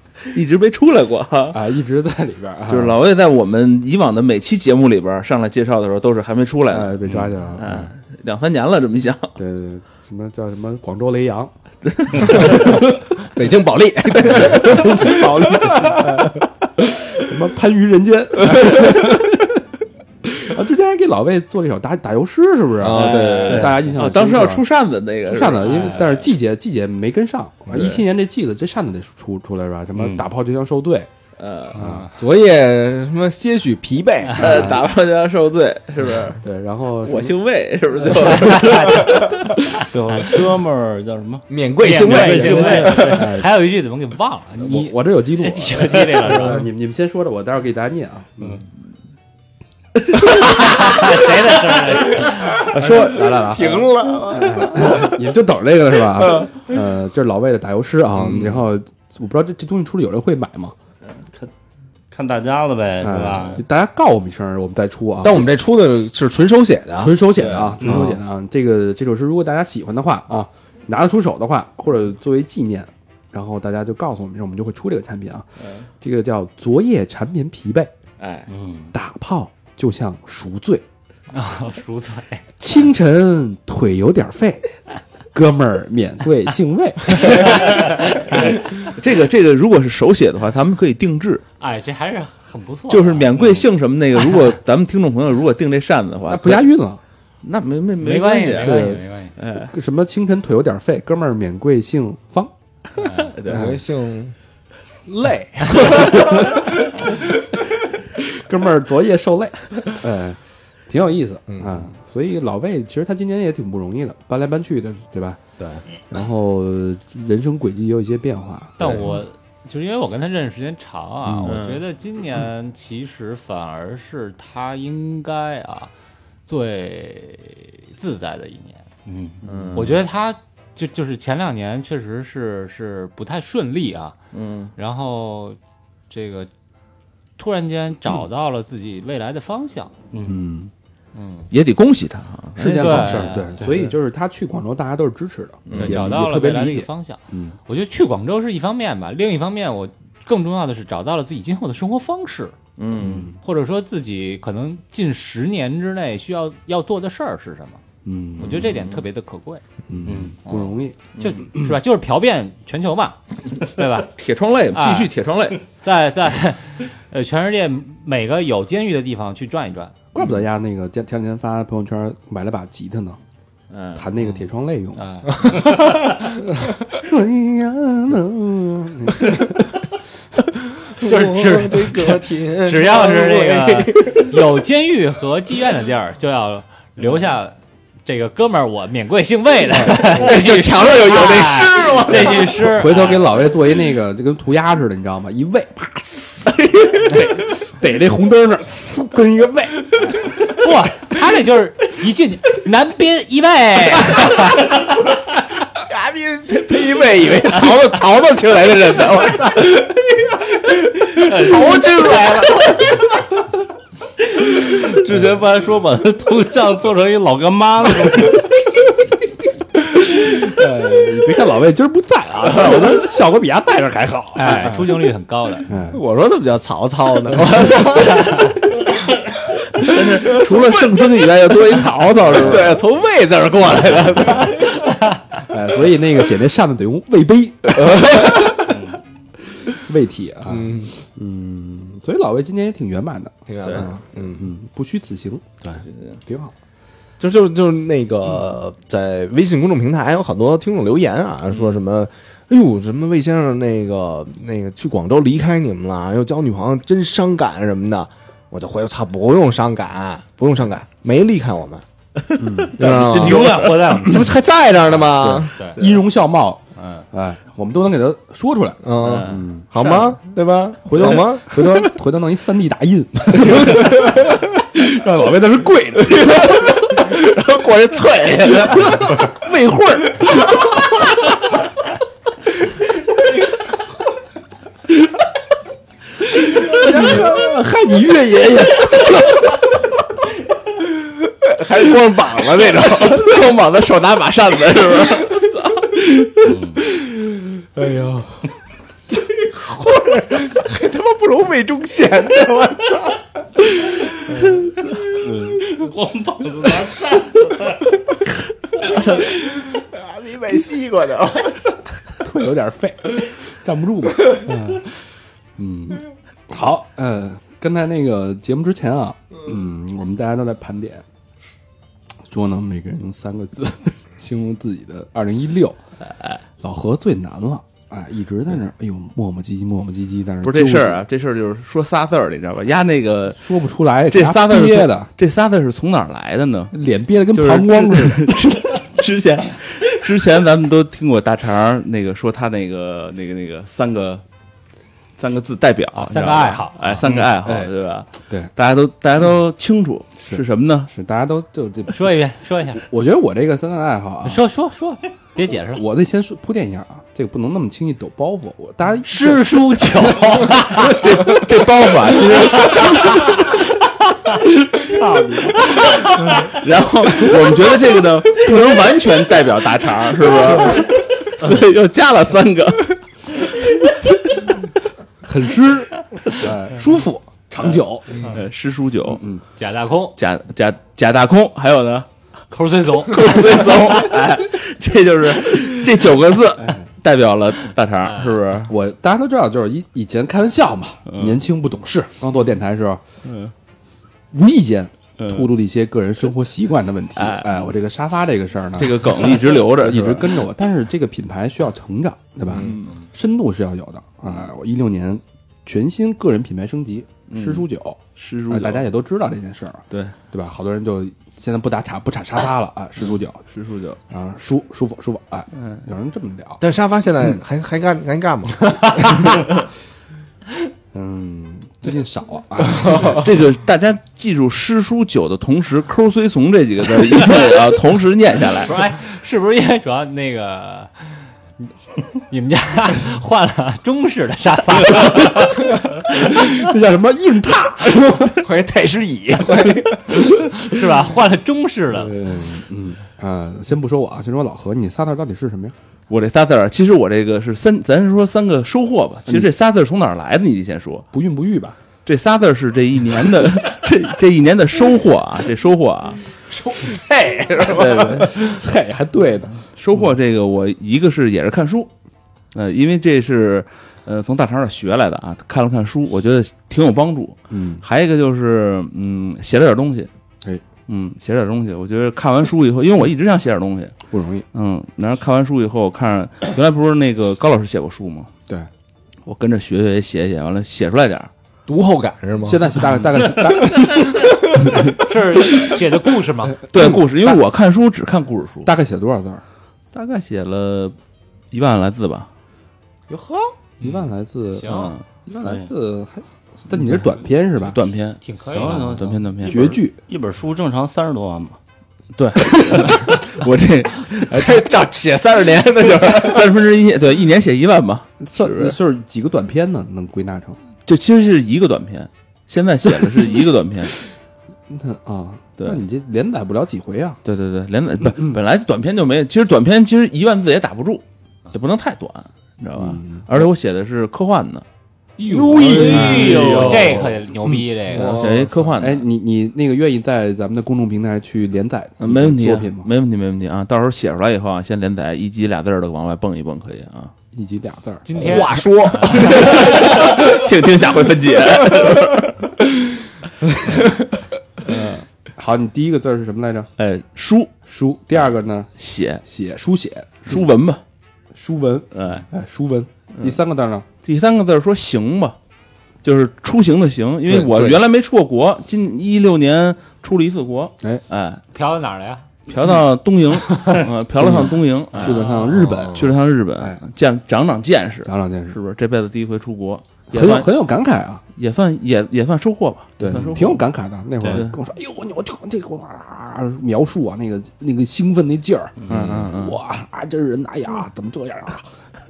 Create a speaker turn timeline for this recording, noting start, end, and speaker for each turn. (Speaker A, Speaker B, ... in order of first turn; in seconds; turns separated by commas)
Speaker A: 0.3-1.6, Speaker B: 1.5-3.0, Speaker A: 2.7-9.4, Speaker B: 6.7-7.9, Speaker B: 9.4-11.5, Speaker A: 11.8-12.7, Speaker B: 12.1-12.8, Speaker C: 12.3-16.2, Speaker B: 14.2-19.6, Speaker A: 14.2-14.9, Speaker B: 20.2-24.6, Speaker C: 22.8-23.8, Speaker A: 22.8-26.2, Speaker D: 23.5-24.0, Speaker B: 25.2-31.1, Speaker E: 25.6-26.2, Speaker A: 27.7-28.0, Speaker D: 29.9-30.3, Speaker A: 31.4-31.9, Speaker B: 31.8-32.1, Speaker E: 31.8-32.0, Speaker C: 32.1-34.8, Speaker A: 34.4-36.4, Speaker B: 34.4-34.8, Speaker B: 36.4-37.4, Speaker A: 37.0-39.5, Speaker B: 38.0-38.6, Speaker D: 39.9-43.4, Speaker C: 41.5-43.0, Speaker E: 41.8-46.6, Speaker B: 42.5-43.5, Speaker B: 44.6-48.6, Speaker E: 50.4-52.6, Speaker A: 52.6-53.6, Speaker B: 52.7-60.7, Speaker C: 53.3-55.2, Speaker C: 56.2-56.5, Speaker A: 58.2-58.6, Speaker D: 62.1-63.6, Speaker B: 63.0-65.5, Speaker C: 65.2-68.2, Speaker B: 67.0-75.5, Speaker A: 67.3-68.0, Speaker D: 67.8-68.1, Speaker B: 76.0-77.9, Speaker A: 78.2-78.5, Speaker D: 78.5-78.9, Speaker B: 78.9-80.8, Speaker E: 81.3-82.4, Speaker B: 82.6-84.7, Speaker B: 85.3-88.5, Speaker A: 87.4-91.4, Speaker E: 91.6-93.6, Speaker A: 92.9-96.7, Speaker B: 96.3-97.0, Speaker A: 97.4-99.7, Speaker E: 98.0-99.3, Speaker B: 98.6-99.0, Speaker B: 99.6-102.5, Speaker E: 103.0-103.3, Speaker A: 103.3-103.7, Speaker B: 103.5-103.8, Speaker C: 103.5-104.3, Speaker C: 105.0-106.6, Speaker B: 106.3-106.6, Speaker B: 108.2-115.4, Speaker C: 111.5-111.9, Speaker B: 116.1-119.1, Speaker E: 118.8-125.9, Speaker A: 121.4-121.8, Speaker E: 126.5-128.9, Speaker D: 129.1-129.4, Speaker A: 129.4-130.0, Speaker E: 129.7-134.2, Speaker A: 134.3-134.7, Speaker E: 134.8-135.6, Speaker E: 136.1-136.5, Speaker E: 137.4-139.9, Speaker B: 140.2-140.7, Speaker E: 141.1-141.5, Speaker A: 141.5-143.3, Speaker B: 142.6-147.6, Speaker E: 142.7-143.7, Speaker D: 143.6-143.8, Speaker E: 145.8-152.6, Speaker A: 152.8-153.3, Speaker B: 152.9-153.4, Speaker E: 153.4-157.8, Speaker B: 158.0-158.7, Speaker E: 158.4-159.6, Speaker B: 159.9-161.0, Speaker D: 160.1-160.4, Speaker E: 160.4-164.1, Speaker A: 164.2-165.6, Speaker E: 164.7-165.1, Speaker E: 165.7-169.9, Speaker B: 170.1-173.2, Speaker A: 170.2-170.4, Speaker A: 173.7-174.1, Speaker B: 173.9-179.8, Speaker E: 174.9-175.6, Speaker C: 175.5-175.9, Speaker C: 180.8-184.4, Speaker E: 181.0-193.4, Speaker C: 190.0-192.6, Speaker B: 192.4-200.2, Speaker E: 200.3-204.8, Speaker C: 205.8-213.1, Speaker D: 214.3-218.5, Speaker B: 219.9-224.9, Speaker E: 224.3-225.7, Speaker B: 225.7-226.0, Speaker C: 225.9-228.9, Speaker A: 229.7-232.8, Speaker C: 229.8-235.1, Speaker B: 232.2-232.7, Speaker B: 235.4-238.7, Speaker C: 237.7-238.7, Speaker B: 239.7-245.6, Speaker C: 240.4-240.9, Speaker C: 243.5-244.5, Speaker A: 245.6-246.2, Speaker B: 246.2-246.5, Speaker C: 247.2-261.8, Speaker A: 262.3-264.0, Speaker B: 262.4-262.8, Speaker C: 262.7-265.5, Speaker E: 262.8-264.3, Speaker B: 265.0-270.0, Speaker E: 265.5-265.8, Speaker E: 266.8-267.1, Speaker C: 268.8-271.9, Speaker A: 269.0-269.4, Speaker B: 270.8-277.0, Speaker C: 273.4-274.3, Speaker C: 276.1-279.2, Speaker B: 278.8-280.6, Speaker B: 286.4-289.6, Speaker C: 287.0-287.2, Speaker C: 291.0-293.4, Speaker A: 292.6-295.9, Speaker D: 296.4-296.8, Speaker B: 297.8-298.4, Speaker C: 299.2-303.2, Speaker D: 305.2-307.9, Speaker C: 308.9-311.8, Speaker B: 312.2-314.9, Speaker B: 315.6-321.0, Speaker B: 322.3-325.8, Speaker A: 326.1-326.4, Speaker B: 326.6-331.0, Speaker A: 330.4-333.4, Speaker B: 333.4-335.1, Speaker A: 334.1-336.7, Speaker B: 336.7-338.3, Speaker A: 337.3-344.2, Speaker A: 345.2-350.9, Speaker E: 345.9-346.8, Speaker B: 346.9-347.7, Speaker B: 348.2-348.5, Speaker B: 350.3-352.2, Speaker E: 351.9-352.8, Speaker B: 352.8-354.4, Speaker E: 354.2-355.8, Speaker B: 355.7-359.4, Speaker E: 359.0-361.0, Speaker A: 360.7-363.5, Speaker B: 364.9-365.6, Speaker A: 365.8-374.5, Speaker B: 375.2-378.3, Speaker A: 378.2-379.2, Speaker B: 379.1-379.4, Speaker E: 379.6-380.2, Speaker A: 380.2-382.1, Speaker E: 382.5-383.8, Speaker A: 383.0-388.7, Speaker B: 386.6-386.9, Speaker E: 388.0-388.4, Speaker B: 388.7-393.0, Speaker D: 393.2-393.5, Speaker B: 394.3-408.0, Speaker D: 395.2-395.5, Speaker A: 397.1-397.7, Speaker A: 398.8-400.5, Speaker A: 402.5-402.9, Speaker A: 407.3-408.9, Speaker B: 408.5-413.4, Speaker A: 409.9-410.2, Speaker A: 413.5-414.0, Speaker B: 414.1-416.6, Speaker C: 416.6-419.3, Speaker B: 420.9-423.2, Speaker C: 422.8-423.2, Speaker A: 423.0-428.7, Speaker E: 428.6-435.6, Speaker B: 435.3-438.5, Speaker C: 438.4-440.3, Speaker E: 440.4-442.1, Speaker B: 441.9-445.7, Speaker A: 446.1-451.1, Speaker B: 451.1-451.8, Speaker A: 452.1-456.3, Speaker C: 456.5-458.5, Speaker A: 457.6-458.3, Speaker B: 458.0-459.6, Speaker A: 459.8-461.9, Speaker A: 462.5-470.1, Speaker B: 467.5-467.8, Speaker A: 470.9-473.9, Speaker B: 474.1-474.4, Speaker A: 474.5-478.3, Speaker A: 479.2-481.3, Speaker C: 481.7-482.8, Speaker B: 482.4-484.3, Speaker C: 484.2-484.8, Speaker E: 485.0-486.7, Speaker A: 486.7-488.7, Speaker B: 488.6-489.4, Speaker A: 489.9-490.9, Speaker A: 491.5-492.3, Speaker C: 493.1-493.4, Speaker B: 493.8-497.8, Speaker E: 494.5-495.0, Speaker A: 494.7-495.0, Speaker D: 495.4-495.7, Speaker A: 496.7-497.1, Speaker A: 497.6-499.8, Speaker E: 498.2-498.8, Speaker D: 498.5-501.6, Speaker B: 499.4-500.0, Speaker A: 502.1-504.7, Speaker C: 504.3-506.5, Speaker A: 505.6-508.8, Speaker B: 508.2-510.6, Speaker A: 510.9-514.0, Speaker B: 514.7-517.2, Speaker A: 517.2-524.6, Speaker B: 518.1-518.4, Speaker B: 522.8-523.5, Speaker E: 525.2-528.2, Speaker C: 525.2-526.6, Speaker B: 525.3-532.9, Speaker A: 525.7-527.0, Speaker C: 527.9-528.5, Speaker A: 528.0-529.0, Speaker A: 532.0-537.1, Speaker B: 537.3-538.2, Speaker E: 538.0-539.9, Speaker C: 538.2-540.3, Speaker A: 539.0-542.4, Speaker B: 544.6-546.7, Speaker A: 546.8-547.5, Speaker B: 547.6-548.7, Speaker A: 548.8-549.2, Speaker B: 549.2-550.4, Speaker A: 550.2-550.8, Speaker B: 551.3-553.9, Speaker A: 551.9-552.2, Speaker A: 554.0-555.4, Speaker A: 556.0-561.4, Speaker C: 557.3-557.8, Speaker E: 561.5-562.2, Speaker A: 562.5-570.5, Speaker B: 564.2-566.8, Speaker C: 565.7-566.0, Speaker B: 568.0-568.6, Speaker B: 570.1-571.2, Speaker A: 571.4-573.6, Speaker B: 573.0-581.7, Speaker D: 574.2-574.5, Speaker A: 574.2-574.5, Speaker D: 578.8-579.2, Speaker A: 578.9-579.6